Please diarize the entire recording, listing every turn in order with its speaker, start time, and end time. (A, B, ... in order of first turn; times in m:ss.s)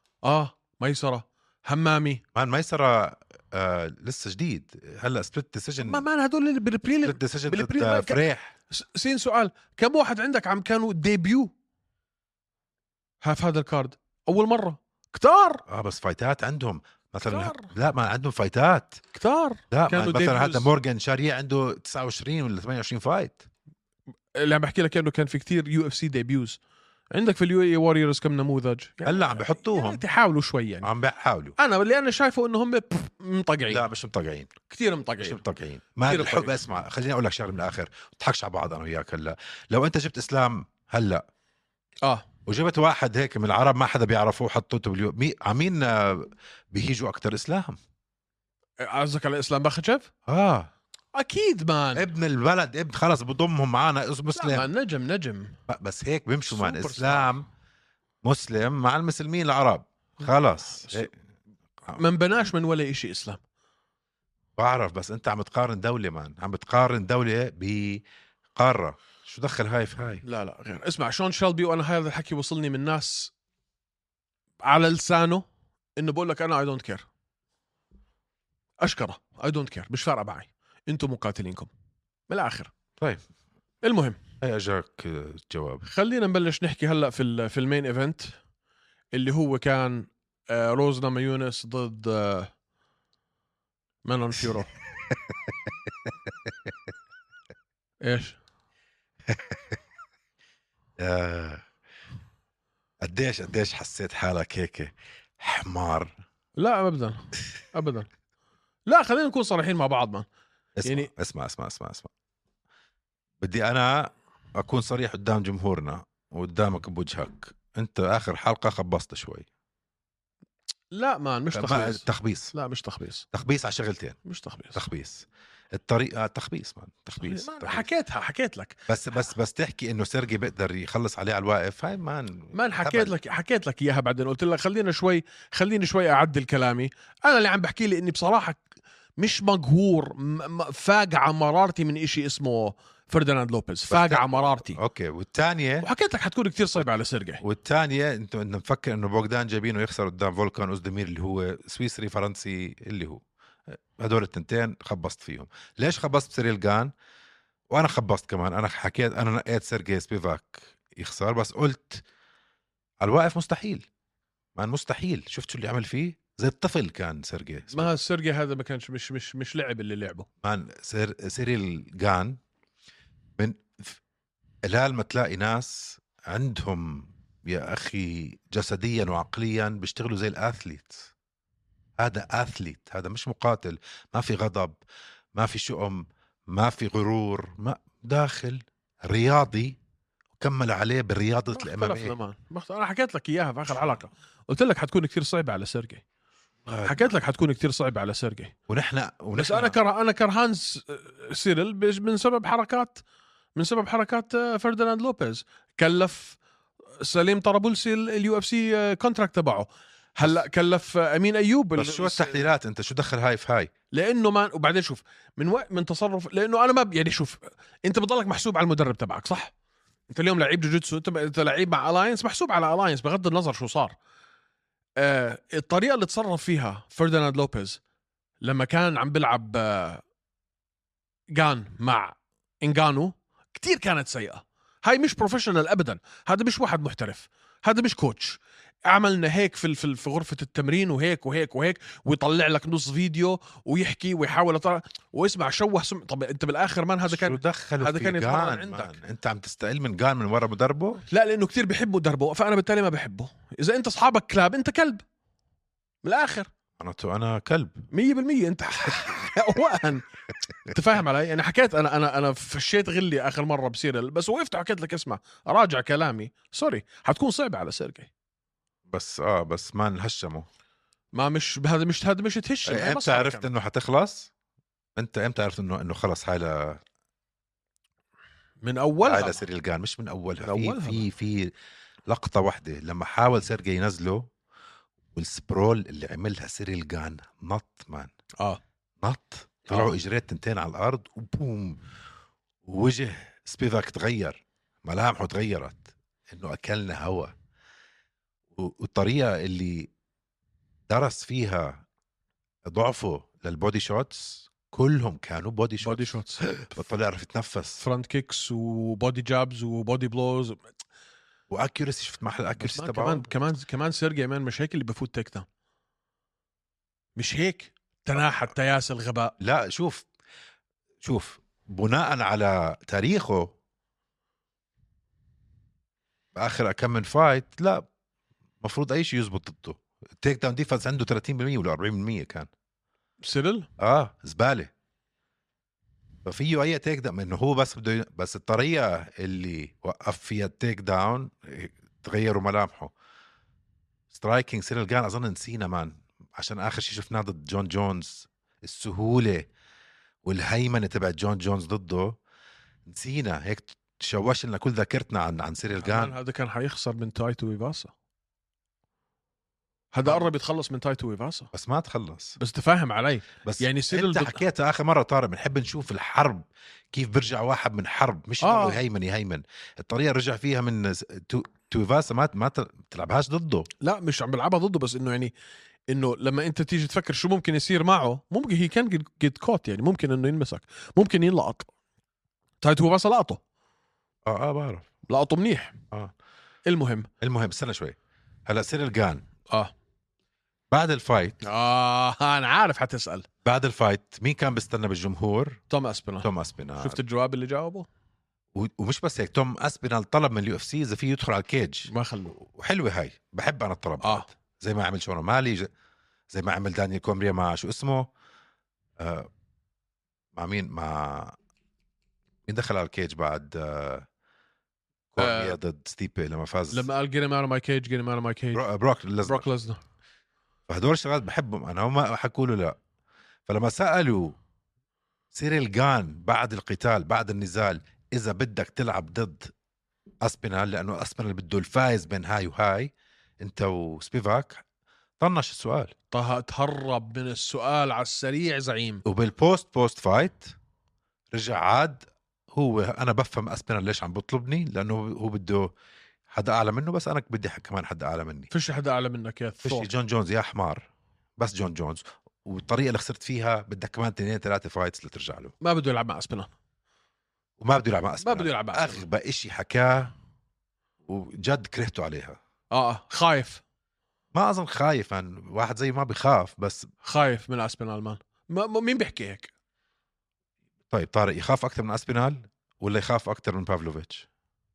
0:00.2-0:02.2 A
0:02.3-0:06.0 B
0:05.8-0:11.5 A
0:07.0-0:08.5 B
0:13.2-0:15.6 A
0:15.7-0:19.0 B
0:17.2-0:17.7 A
0:19.1-0:20.7 A
0:19.7-0:23.4 B
0:24.3-0:26.6 A
0:27.1-0:30.9 A
0:29.0-0:30.0 B
0:30.8-0:31.6 B
0:31.6-0:33.8 A
0:33.7-0:34.5 B
0:34.7-0:35.4 A
0:35.2-0:41.2 B
0:36.0-0:36.6 A
0:42.4-0:47.8 B
0:48.8-0:50.1 A
0:50.3-0:50.7 B
0:51.1-0:52.1 A
0:52.0-0:54.7 B
0:54.3-0:55.6 A
0:55.7-0:57.4 B
0:56.5-0:57.4 A
0:58.2-1:01.1 B
1:00.2-1:01.1 A
1:02.0-1:03.4 A
1:04.6-1:08.0 B
1:08.5-1:10.2 B
1:10.2-1:13.3 A
1:14.6-1:15.4 A
1:16.0-1:17.1 A
1:18.8-1:21.7 A
1:22.3-1:22.7 A
1:23.0-1:23.2 B
1:23.8-1:24.2 A
1:24.4-1:25.8 B
1:25.8-1:28.4 A
1:29.1-1:32.5 A
1:34.0-1:34.7 A
1:35.1-1:36.7 B
1:38.0-1:38.4 A
1:39.3-1:39.8 B
1:41.0-1:41.6 B
1:43.0-1:46.2 B
1:46.6-1:48.1 A
1:48.9-1:50.2 A
1:50.8-1:52.1 B
1:50.8-1:51.1 A
1:53.4-1:59.5 B
2:00.9-2:03.3 A
2:01.5-2:02.5 B
2:03.3-2:04.2 B
2:04.2-2:04.8 A
2:04.7-2:07.8 B
2:07.2-2:08.8 A
2:08.9-2:13.1 B
2:12.5-2:18.6 A
2:19.2-2:24.8 A
2:23.9-2:25.9 B
2:25.8-2:27.4 A
2:27.4-2:36.9 B
2:37.7-2:42.0 B
2:43.0-2:43.8 B
2:44.6-2:47.9 B
2:47.7-2:50.3 A
2:50.4-2:52.4 B
2:53.4-2:54.0 B
2:54.6-3:01.1 B
3:02.0-3:04.8 B
3:05.3-3:09.8 B
3:10.4-3:12.1 B
3:11.5-3:16.0 A
3:16.6-3:17.1 B
3:16.8-3:18.5 A
3:18.7-3:19.8 B
3:19.3-3:23.0 A
3:23.6-3:26.4 A
3:27.0-3:32.4 A
3:31.7-3:33.7 B
3:33.9-3:39.5 A
3:40.1-3:43.9 A
3:45.0-3:47.8 A
3:48.4-3:50.0 A
3:51.3-4:09.0 A
4:07.0-4:11.0 B
4:11.1-4:15.0 A
4:16.0-4:16.5 A
4:16.8-4:17.9 B
4:17.9-4:20.1 A
4:20.7-4:28.1 A
4:28.9-4:30.5 B
4:31.1-4:33.5 A
4:32.7-4:34.3 B
4:35.0-4:36.8 B
4:38.6-4:39.4 A
4:39.0-4:41.5 B
4:40.4-4:41.0 A
4:42.1-4:44.3 B
4:45.1-4:48.1 B
4:49.0-4:51.8 B
4:52.6-4:57.3 B
4:58.5-4:59.9 B
5:00.9-5:01.8 B
5:02.6-5:07.8 B
5:05.8-5:06.5 A
5:07.8-5:10.6 A
5:11.5-5:13.3 B
5:12.6-5:15.4 A
5:17.2-5:19.3 A
5:19.4-5:20.0 B
5:21.0-5:23.5 B
5:26.3-5:27.9 B
5:28.6-5:32.5 B
5:33.2-5:33.7 A
5:33.8-5:34.7 B
5:36.2-5:42.9 B
5:44.1-5:49.5 B
5:50.2-5:52.2 B
5:52.9-5:56.1 B
5:55.8-5:57.9 A
5:59.9-6:01.5 A
6:00.0-6:00.3 B
6:01.5-6:02.4 B
6:02.4-6:04.4 A
6:03.4-6:13.7 B
6:08.4-6:08.8 A
6:13.8-6:15.3 A
6:15.9-6:21.7 A
6:22.6-6:23.4 A
6:24.2-6:24.9 B
6:25.1-6:25.8 A
6:26.6-6:27.1 A
6:27.2-6:29.2 B
6:30.7-6:31.4 B
6:31.4-6:33.3 A
6:33.4-6:35.6 B
6:35.7-6:36.3 A
6:36.2-6:37.0 B
6:36.8-6:37.9 A
6:38.5-6:45.7 B
6:41.9-6:42.4 A
6:44.0-6:44.3 A
6:46.3-6:48.1 B
6:49.0-6:49.3 B
6:50.3-6:51.3 B
6:52.5-6:54.1 B
6:55.1-6:56.9 B
6:55.2-6:55.6 A
6:56.7-6:58.6 A
6:58.5-6:59.4 B
6:59.2-6:59.8 A
7:00.7-7:02.8 B
7:03.5-7:04.4 B
7:05.3-7:09.5 B
7:10.2-7:14.6 B
7:15.2-7:15.9 B
7:16.1-7:19.0 A
7:19.0-7:20.5 B
7:21.3-7:25.7 B
7:26.3-7:28.5 B
7:28.5-7:29.9 A
7:29.6-7:35.5 B
7:35.6-7:36.5 A
7:37.6-7:40.1 B
7:38.2-7:39.0 A
7:41.0-7:42.4 B
7:42.7-7:43.6 A
7:44.3-7:46.9 B
7:47.0-7:49.5 A
7:50.9-7:54.3 B